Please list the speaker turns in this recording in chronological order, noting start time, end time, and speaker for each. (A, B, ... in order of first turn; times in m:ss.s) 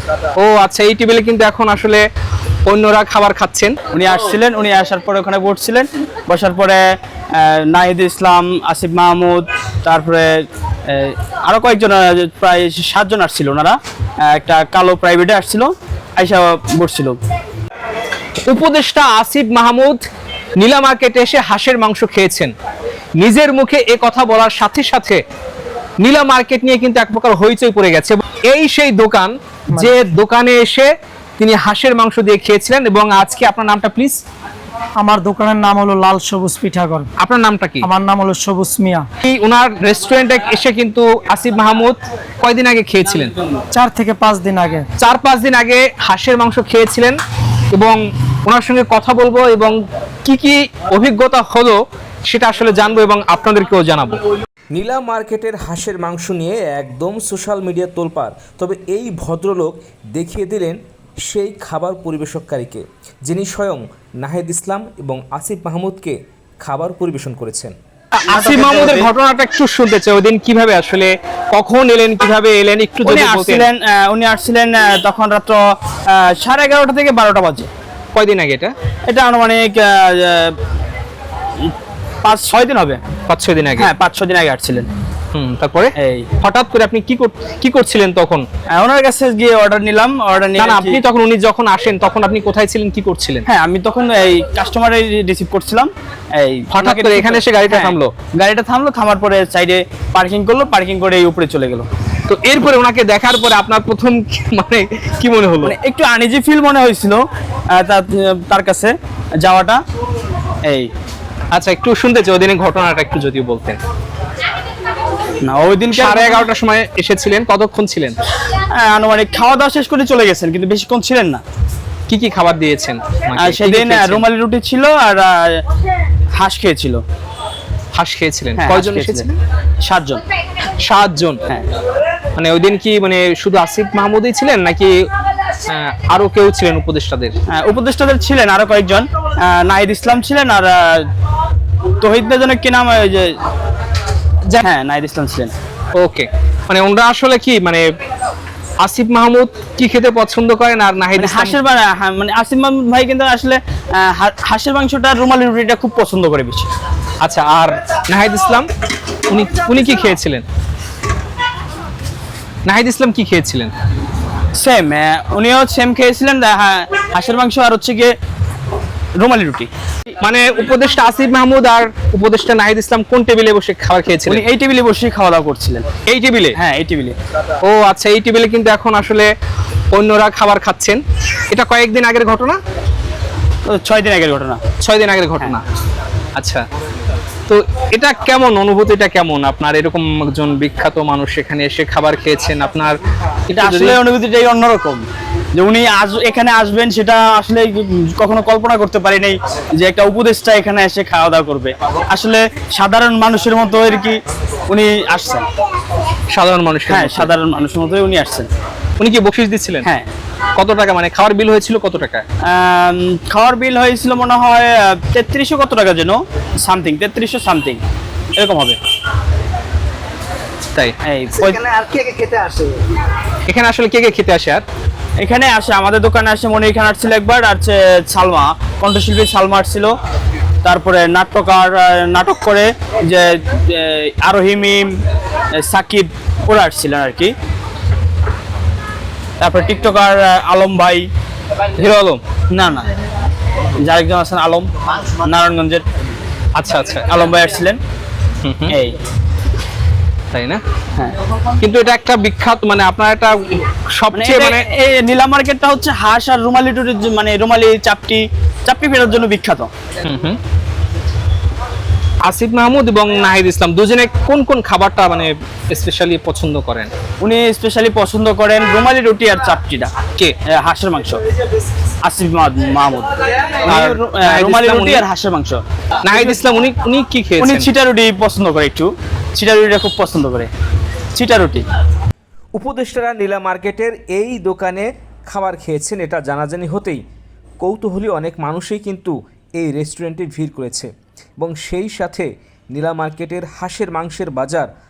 0:00.4-0:02.0 A
0:02.7-0:03.8 A
0:03.9-0:06.8 B
0:07.4-0:10.3 B
0:10.9-0:17.2 B
0:18.4-0:20.0 A
0:20.6-0:22.5 A
0:23.2-0:25.2 A
0:26.0-0:30.9 A
0:31.4-0:34.2 A
0:35.0-0:37.1 C
0:37.2-0:37.9 A
0:37.8-0:39.1 C
0:39.2-0:43.3 A
0:43.7-0:44.8 C
0:45.0-0:47.2 A
0:47.7-0:54.2 A
0:54.7-1:07.7 D
1:08.2-1:09.1 B
1:08.3-1:13.7 A
1:13.0-1:17.7 B
1:18.1-1:18.7 A
1:19.1-1:20.5 B
1:22.2-1:23.0 B
1:23.3-1:23.9 A
1:23.8-1:24.9 B
1:25.3-1:28.4 A
1:26.0-1:26.3 B
1:28.7-1:31.0 B
1:30.6-1:33.4 A
1:33.5-1:41.8 B
1:36.7-1:38.1 A
1:42.3-1:45.7 A
1:45.6-1:47.2 B
1:47.7-1:49.8 B
1:51.5-1:53.8 A
1:55.4-1:56.4 B
1:55.9-1:58.2 A
1:58.6-2:01.4 B
2:02.1-2:04.2 A
2:03.3-2:05.6 B
2:06.4-2:07.0 B
2:07.9-2:09.3 A
2:08.6-2:09.3 B
2:09.8-2:10.2 B
2:10.8-2:11.4 A
2:12.4-2:14.9 A
2:15.7-2:17.3 A
2:17.5-2:21.1 B
2:22.0-2:23.4 B
2:24.6-2:25.5 B
2:26.0-2:27.8 A
2:28.8-2:31.6 A
2:31.2-2:36.7 B
2:37.2-2:38.7 A
2:39.3-2:40.4 A
2:42.7-2:43.7 A
2:44.6-2:48.1 B
2:49.2-2:49.7 B
2:50.2-2:54.4 A
2:54.2-2:55.9 B
2:56.1-2:56.6 A
2:56.6-2:57.2 B
2:57.6-2:59.3 A
2:59.9-3:01.0 A
3:01.5-3:02.6 A
3:03.7-3:04.6 B
3:04.8-3:05.6 A
3:06.4-3:06.6 A
3:07.5-3:12.9 A
3:13.5-3:14.0 A
3:13.5-3:25.5 B
3:26.3-3:27.3 A
3:26.9-3:28.5 B
3:29.0-3:29.9 A
3:30.6-3:32.2 A
3:32.4-3:37.8 B
3:38.4-3:38.8 B
3:41.0-3:42.2 B
3:43.5-3:44.6 A
3:45.2-3:49.9 B
3:50.6-3:54.9 B
3:55.6-3:57.3 B
3:59.4-4:01.1 B
4:01.8-4:02.9 B
4:03.8-4:05.8 B
4:06.6-4:07.2 A
4:07.1-4:07.8 B
4:08.4-4:08.7 A
4:08.7-4:09.0 B
4:10.3-4:10.6 A
4:11.6-4:13.4 A
4:13.9-4:14.6 A
4:14.1-4:19.7 B
4:20.0-4:20.4 A
4:22.2-4:26.9 A
4:27.2-4:29.9 B
4:30.5-4:31.2 B
4:32.0-4:33.1 B
4:33.6-4:35.6 B
4:33.6-4:35.0 A
4:36.0-4:37.7 A
4:37.4-4:40.5 B
4:41.1-4:41.6 B
4:42.6-4:47.0 D
4:47.6-4:54.7 D